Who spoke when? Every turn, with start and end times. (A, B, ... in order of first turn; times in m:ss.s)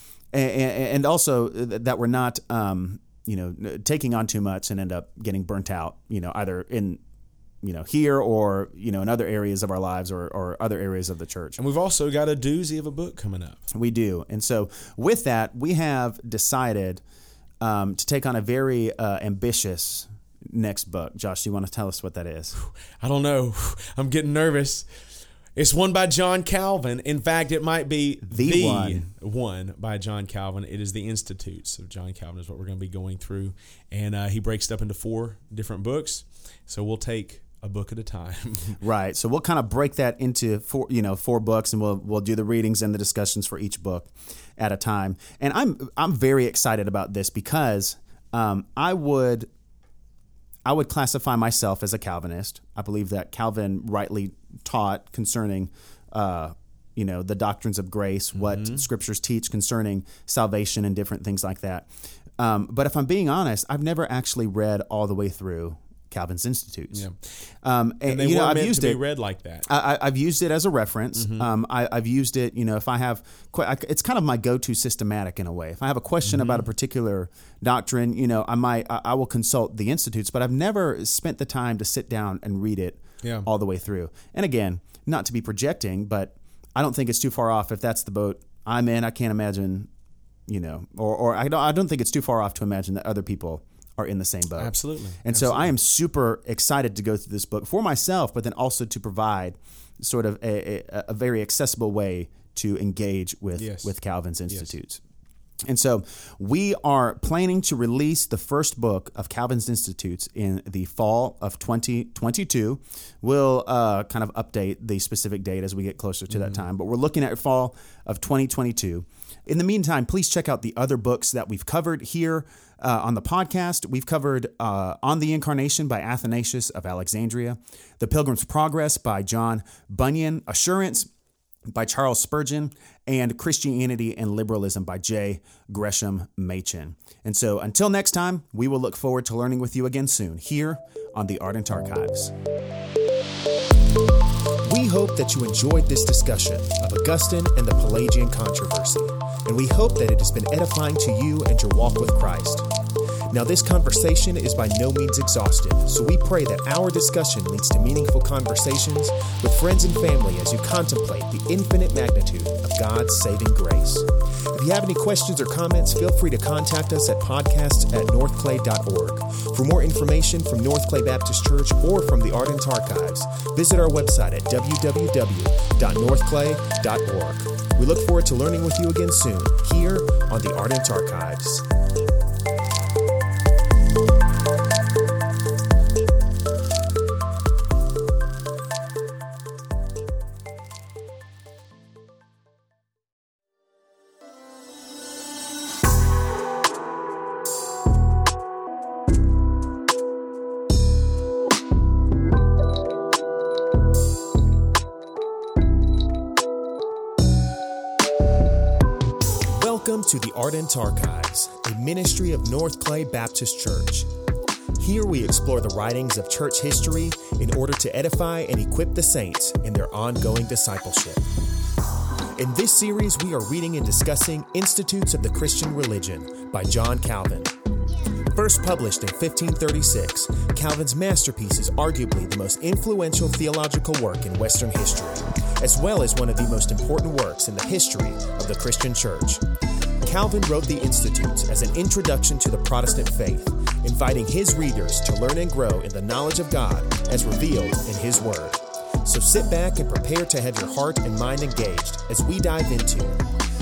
0:00.3-0:07.0 A
0:07.6-0:11.6 A
0:11.6-0:13.6 B
0:13.7-0:17.0 A
0:17.6-0:22.5 A
0:22.5-0:24.8 B
0:25.6-0:38.8 B
0:28.3-0:29.1 A
0:38.8-0:49.5 A
0:50.6-1:07.0 A
0:58.3-0:58.8 B
1:06.9-1:07.2 B
1:07.6-1:09.0 A
1:08.0-1:09.7 B
1:09.7-1:29.9 A
1:11.2-1:11.5 B
1:16.2-1:16.7 B
1:23.2-1:23.5 B
1:30.5-1:45.0 A
1:34.6-1:35.7 B
1:43.6-1:43.9 B
1:45.7-2:11.1 A
1:56.3-1:56.6 B
2:11.7-2:22.3 A
2:24.6-2:32.7 C
2:33.3-3:01.6 C
3:29.5-3:34.1 C
3:34.8-3:41.2 C
3:42.4-3:59.4 C
4:00.0-4:13.2 C